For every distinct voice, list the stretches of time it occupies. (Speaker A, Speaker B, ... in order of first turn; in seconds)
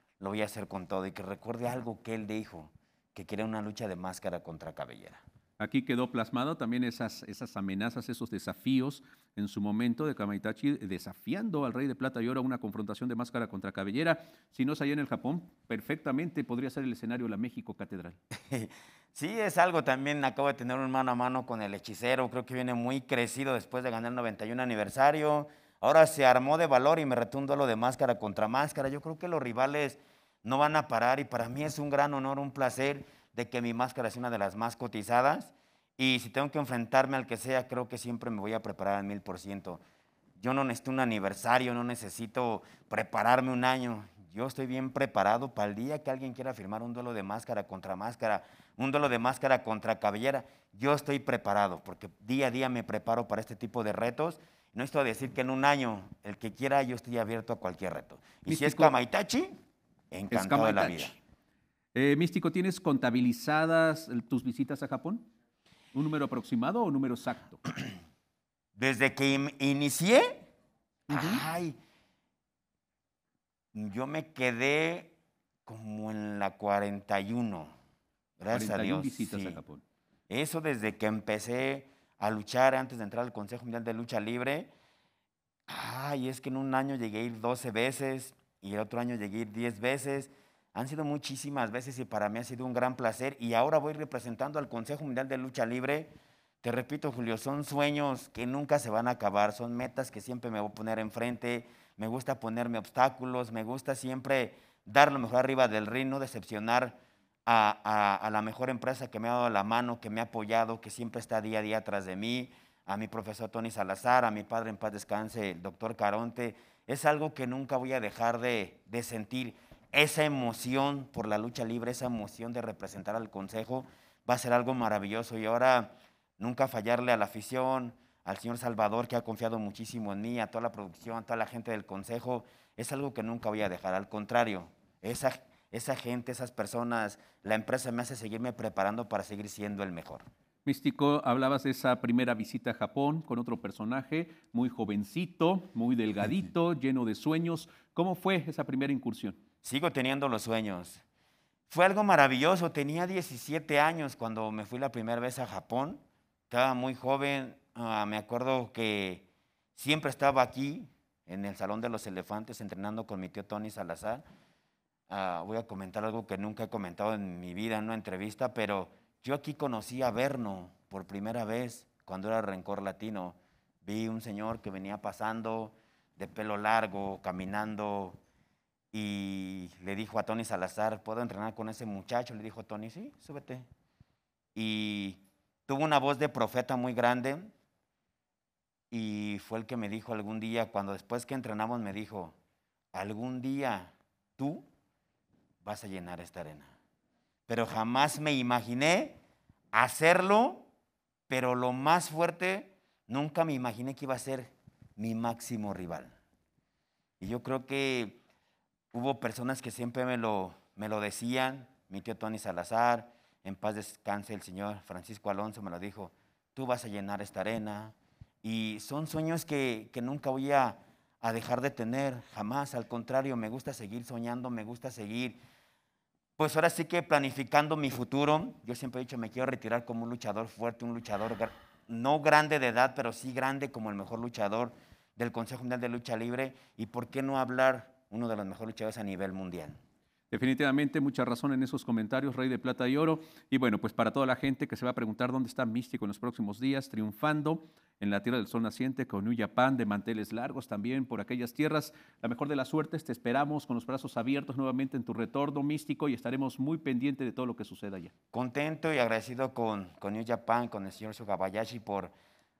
Speaker A: 0.2-5.2, 18.4-39.8, 40.4-59.5, 60.1-61.1, 68.8-70.5, 71.1-71.8, 73.7-75.1, 75.7-77.7, 78.4-79.6, 80.3-84.7, 85.7-140.2, 149.6-151.0, 151.7-159.2, 159.8-164.2, 165.1-178.2, 178.9-183.7, 184.5-187.5, 188.9-192.3, 192.9-194.6, 195.6-196.7, 197.5-199.2, 199.7-200.7, 201.3-206.1, 207.2-208.2, 208.9-225.4, 226.4-239.8, 258.3-262.1
Speaker B: 5.6-18.2, 58.5-59.0, 60.3-61.2, 61.9-65.3, 65.9-67.6, 71.1-71.4, 78.5-79.8, 140.7-149.4, 240.3-258.1